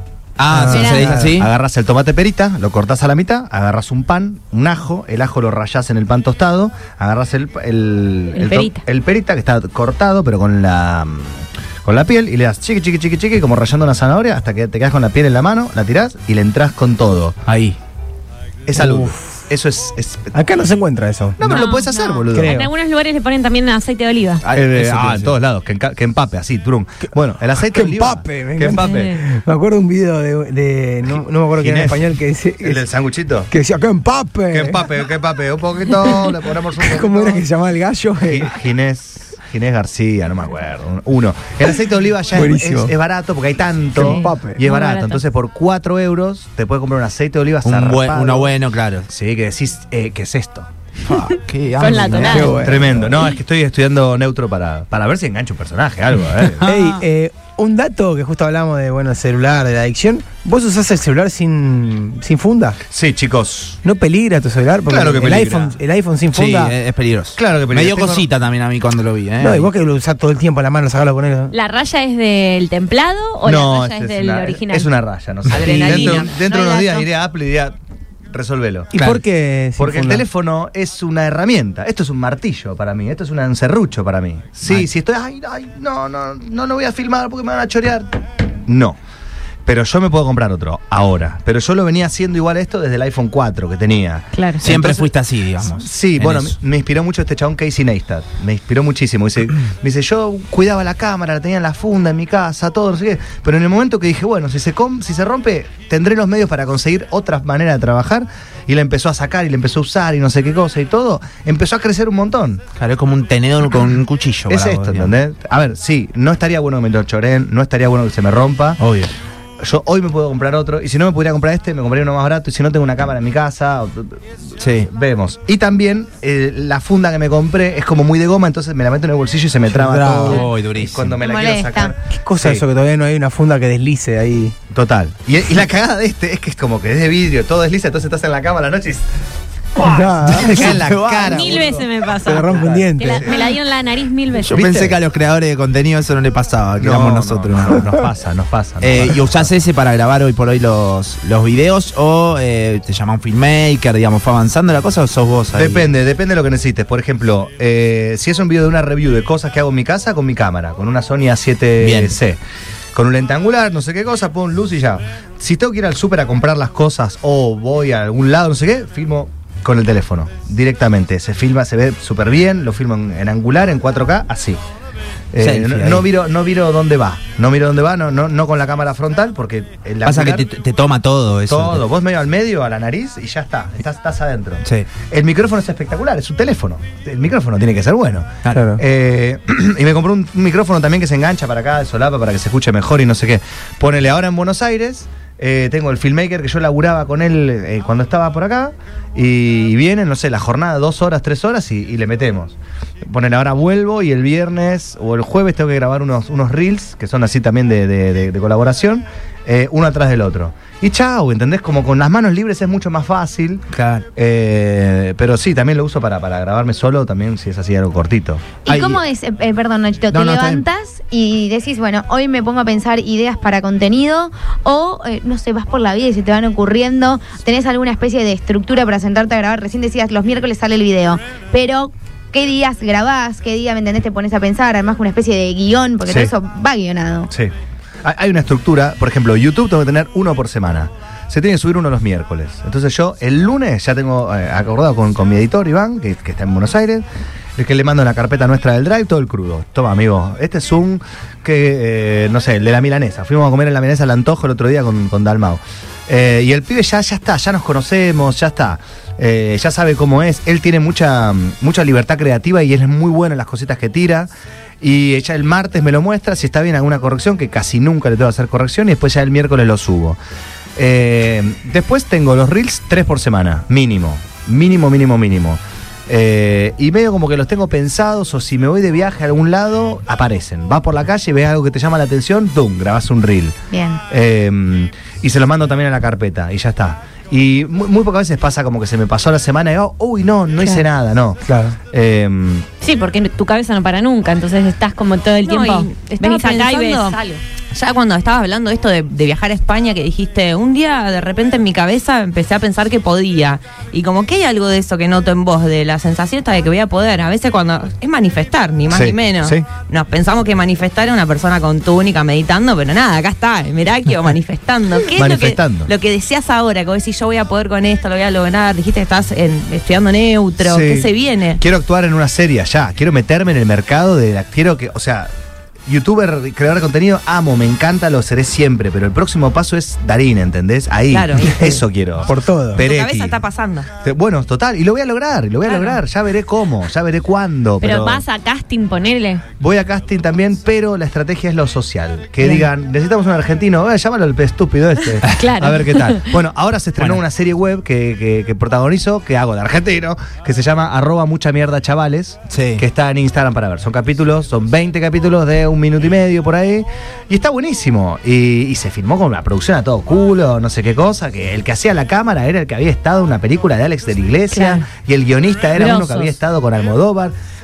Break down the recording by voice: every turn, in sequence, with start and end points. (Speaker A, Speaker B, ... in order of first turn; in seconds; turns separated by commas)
Speaker A: 0.4-1.5, Speaker B: 0.5-1.3, Speaker C: 0.7-17.4, Speaker D: 0.8-1.1, Speaker D: 8.3-8.8, Speaker A: 17.5-17.8, Speaker C: 18.7-20.3, Speaker B: 18.7-19.2, Speaker B: 20.3-21.7, Speaker C: 21.4-22.6, Speaker D: 21.4-24.4, Speaker B: 22.3-22.7, Speaker A: 24.4-25.4, Speaker C: 24.5-29.2, Speaker B: 27.5-32.9, Speaker D: 28.8-29.1, Speaker C: 31.6-32.1, Speaker C: 32.6-33.5, Speaker B: 33.5-34.9, Speaker C: 34.5-37.4, Speaker B: 36.8-38.5, Speaker C: 38.2-48.5, Speaker B: 42.3-43.0, Speaker B: 43.9-44.6, Speaker D: 44.0-45.2, Speaker A: 47.6-49.1, Speaker C: 49.1-50.7, Speaker A: 51.0-52.6, Speaker D: 51.8-52.6, Speaker B: 52.2-53.3, Speaker C: 52.6-56.7, Speaker B: 56.6-62.8, Speaker D: 56.6-57.0, Speaker C: 62.9-63.8, Speaker B: 63.8-66.8, Speaker C: 64.9-65.8, Speaker A: 66.3-69.7, Speaker C: 67.4-68.3, Speaker B: 69.4-71.5, Speaker D: 71.5-74.9, Speaker C: 73.4-77.7, Speaker D: 75.5-76.9, Speaker E: 75.6-77.0, Speaker B: 75.6-76.2, Speaker C: 78.3-79.2, Speaker B: 78.9-80.3, Speaker C: 79.8-89.0, Speaker C: 89.7-95.1, Speaker D: 94.3-94.6, Speaker A: 94.6-96.5, Speaker C: 95.6-112.6, Speaker A: 112.8-115.2, Speaker C: 114.5-118.8, Speaker A: 118.8-119.1, Speaker C: 119.6-124.2, Speaker A: 124.6-124.9, Speaker C: 124.8-132.6, Speaker B: 129.7-130.5, Speaker A: 130.2-131.2, Speaker F: 131.2-131.9, Speaker B: 132.2-134.6, Speaker C: 134.7-139.1, Speaker C: 139.8-142.0, Speaker B: 139.8-140.8, Speaker A: 140.3-141.6, Speaker D: 141.3-144.8, Speaker B: 142.2-143.4, Speaker C: 142.6-143.5, Speaker A: 144.4-147.9, Speaker C: 144.5-144.9, Speaker C: 146.8-149.5, Speaker A: 148.8-155.9, Speaker C: 155.6-162.4, Speaker A: 161.8-162.2, Speaker C: 162.9-174.6, Speaker C: 175.3-180.5, Speaker A: 175.4-176.1, Speaker A: 180.0-181.8, Speaker C: 181.5-218.6, Speaker A: 188.4-188.7, Speaker B: 188.5-188.8, Speaker A: 213.7-214.1, Speaker F: 218.6-237.3, Speaker A: 218.7-219.0, Speaker A: 220.1-220.6, Speaker C: 238.0-247.0, Speaker C: 247.6-264.3, Speaker C: 264.8-270.2, Speaker C: 270.8-292.7, Speaker F: 283.7-284.0, Speaker B: 291.5-291.8, Speaker D: 292.8-297.4, Speaker E: 295.4-297.2, Speaker E: 297.7-321.6, Speaker C: 308.9-309.7, Speaker C: 315.1-315.9, Speaker C: 320.6-325.3, Speaker C: 325.9-333.4, Speaker E: 331.1-331.8, Speaker B: 332.2-332.8, Speaker E: 332.8-333.9, Speaker C: 334.0-338.2, Speaker D: 337.8-339.4, Speaker C: 339.6-367.4, Speaker D: 345.4-346.3, Speaker A: 352.5-352.8, Speaker D: 364.5-364.9, Speaker D: 365.8-366.4